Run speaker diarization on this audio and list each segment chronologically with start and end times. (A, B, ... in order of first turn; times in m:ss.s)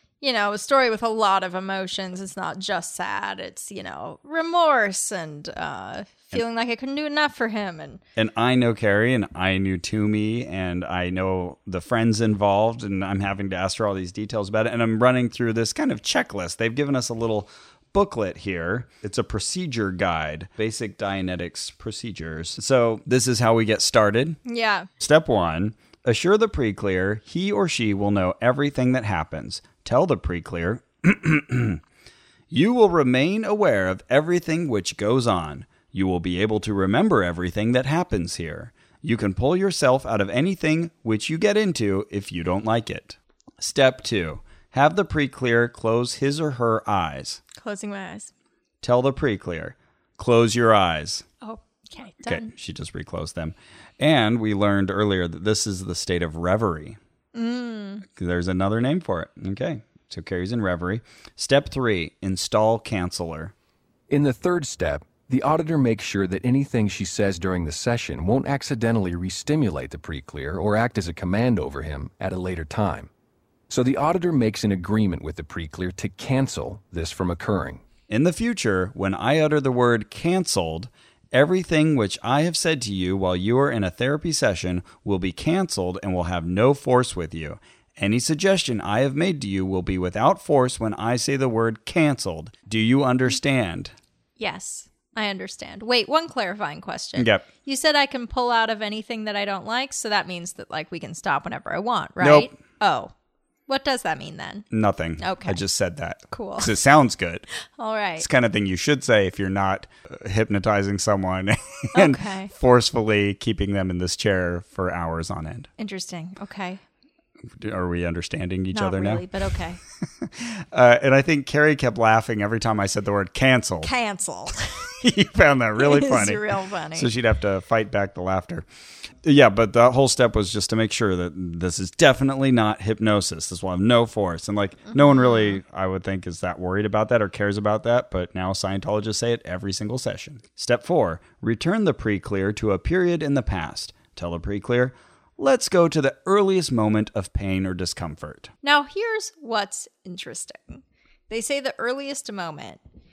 0:00.2-0:08.0 A
0:08.2-0:24.4 B
0:24.4-0:24.9 A
0:25.0-0:31.8 B
0:32.5-0:47.4 B
0:47.6-0:48.3 A
0:48.8-0:51.3 B
0:51.4-0:52.5 A
0:52.2-0:57.0 B
0:57.3-0:58.0 A
0:58.1-1:03.5 B
1:04.1-1:13.1 C
1:13.7-1:17.8 C
1:18.1-1:33.9 B
1:34.4-1:43.1 A
1:37.2-1:37.5 B
1:42.2-1:42.5 B
1:43.7-1:44.7 A
1:44.7-1:47.5 B
1:45.2-1:45.6 A
1:46.3-1:46.7 A
1:47.8-1:48.3 A
1:48.2-1:55.7 B
1:51.9-1:52.5 A
1:55.8-1:56.8 A
1:57.5-1:59.2 B
1:58.7-1:59.8 A
2:00.2-2:03.9 B
2:03.8-2:04.9 A
2:05.0-2:06.4 B
2:05.8-2:07.1 A
2:07.0-2:08.7 B
2:09.2-2:28.5 B
2:14.9-2:15.6 A
2:28.6-2:32.8 A